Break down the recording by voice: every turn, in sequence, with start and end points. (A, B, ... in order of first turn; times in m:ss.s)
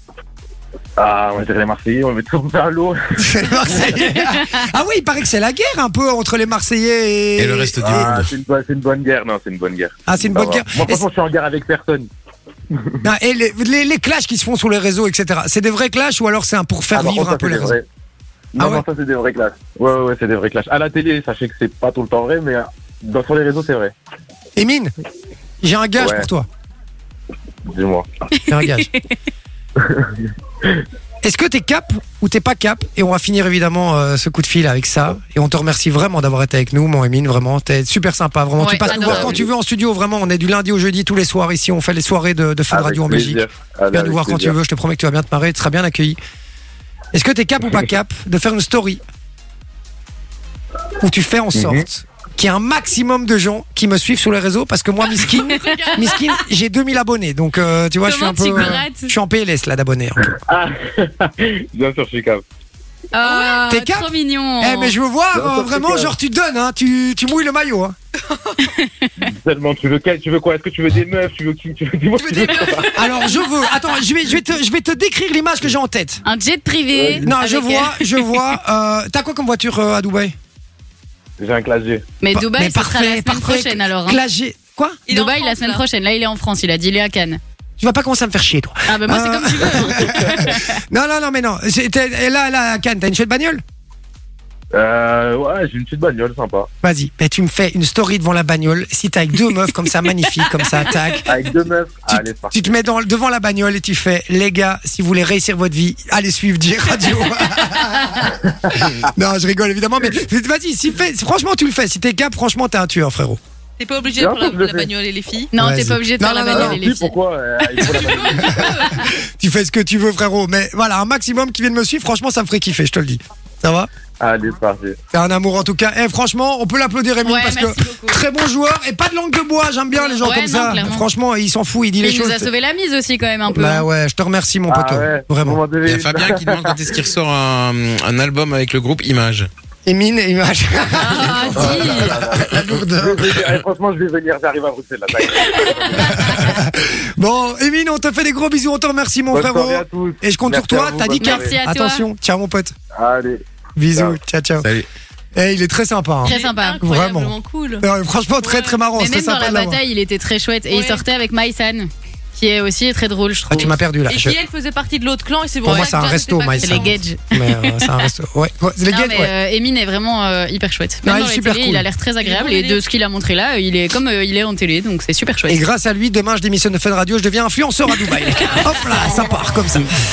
0:01.0-0:04.0 A
0:03.2-0:08.1 B
0:04.0-0:04.7 C
0:07.4-0:08.3 D
0:07.8-0:12.1 A
0:10.1-0:11.0 B
0:12.7-0:13.0 A
0:13.0-0:17.7 B
0:16.9-0:17.8 A
0:18.5-0:23.9 A
0:18.6-0:18.8 B
0:24.6-0:24.9 B
0:25.6-0:26.5 B
0:26.0-0:26.3 A
0:27.7-0:28.1 A
0:28.3-0:29.1 C
0:28.4-0:28.9 B
0:29.8-0:30.1 A
0:31.2-0:43.4 B
0:38.6-0:39.4 C
0:38.8-0:39.4 A
0:42.7-0:44.6 A
0:43.9-0:46.2 B
0:47.1-0:49.0 B
0:51.0-1:00.2 B
0:51.5-0:51.8 A
0:55.2-0:56.4 C
0:55.4-0:56.2 E
0:58.2-0:59.1 C
0:58.4-0:58.8 E
1:00.3-1:02.4 A
1:03.1-1:04.9 C
1:03.2-1:03.6 E
1:03.7-1:08.0 B
1:05.3-1:06.1 A
1:08.3-1:08.7 E
1:08.8-1:09.1 C
1:09.2-1:13.1 A
1:12.2-1:16.2 B
1:12.4-1:13.5 E
1:16.2-1:18.0 C
1:16.9-1:17.3 A
1:17.2-1:20.3 B
1:21.4-1:22.1 A
1:22.2-1:24.2 C
1:22.3-1:25.0 B
1:25.1-1:25.8 E
1:25.1-1:27.4 C
1:27.8-1:33.6 B
1:28.9-1:30.8 C
1:34.7-1:36.7 A
1:36.8-1:41.4 B
1:40.4-1:40.9 C
1:41.2-1:42.6 A
1:42.1-1:53.4 B
1:47.7-1:48.1 C
1:48.6-1:49.0 A
1:53.8-1:55.5 E
1:54.2-1:54.9 A
1:55.5-1:57.1 C
1:55.6-1:56.8 B
1:56.5-1:58.8 A
1:57.8-1:58.9 E
1:58.3-2:03.9 B
2:04.2-2:05.0 A
2:05.1-2:12.5 B
2:07.2-2:08.2 C
2:10.1-2:11.0 C
2:12.0-2:13.9 C
2:13.5-2:15.6 B
2:14.7-2:16.7 A
2:15.8-2:19.5 D
2:19.8-2:23.3 B
2:21.0-2:22.2 C
2:21.5-2:26.3 A
2:25.6-2:26.6 C
2:25.9-2:32.7 B
2:29.3-2:31.6 A
2:31.2-2:32.0 C
2:33.0-2:34.2 A
2:33.8-2:34.7 B
2:34.6-2:34.9 D
2:35.4-2:39.8 B
2:36.2-2:36.8 C
2:36.2-2:37.8 E
2:38.4-2:38.8 E
2:38.9-2:43.8 C
2:40.7-2:41.0 E
2:43.5-2:44.4 B
2:44.0-2:47.0 E
2:45.6-2:49.3 B
2:46.6-2:48.0 C
2:48.9-2:55.6 C
2:51.0-2:51.9 B
2:52.2-2:52.9 E
2:55.5-2:59.9 B
2:58.4-2:59.3 C